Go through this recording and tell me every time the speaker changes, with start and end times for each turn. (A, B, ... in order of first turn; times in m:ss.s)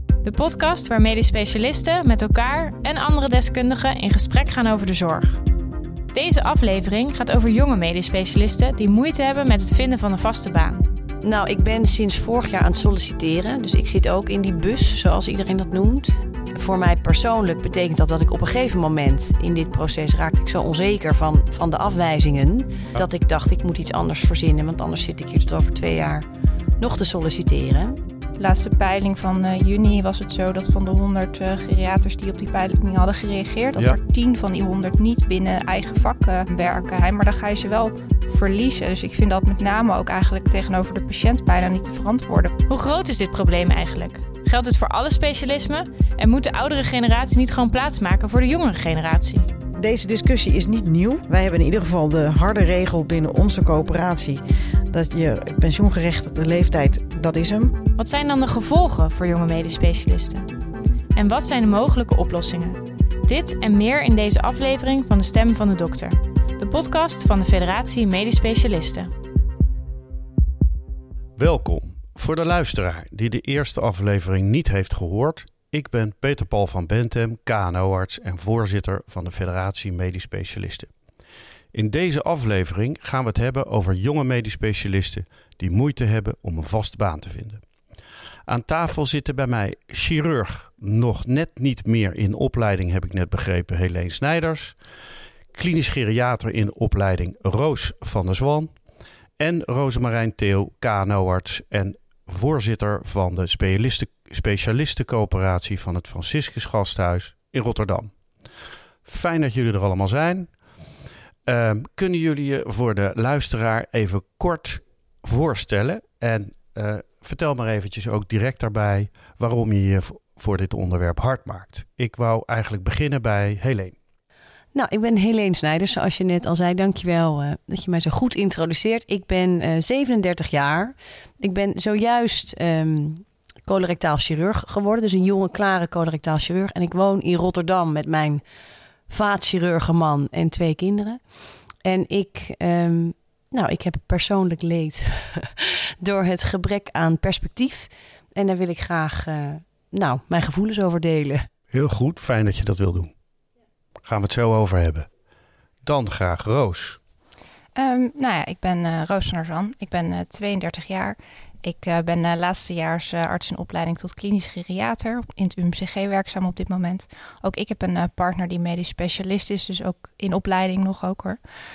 0:00.2-0:05.4 A
0:06.1-0:10.8 A
0:11.2-0:26.3 B
0:26.8-0:28.0 B
0:28.4-0:42.5 C
0:42.7-0:49.5 A
0:49.8-0:57.8 D
0:58.0-1:00.5 A
1:01.1-1:09.1 A
1:11.4-1:20.9 E
1:21.7-1:27.6 E
1:28.5-1:34.8 E
1:35.5-1:38.7 E
1:39.4-1:48.1 E
1:49.0-1:50.5 E
1:51.4-2:04.0 E
2:04.7-2:18.4 B
2:19.1-2:21.2 B
2:21.8-2:31.5 B
2:31.7-2:33.1 E
2:34.0-2:35.1 E
2:35.8-2:37.0 E
2:37.8-2:51.4 C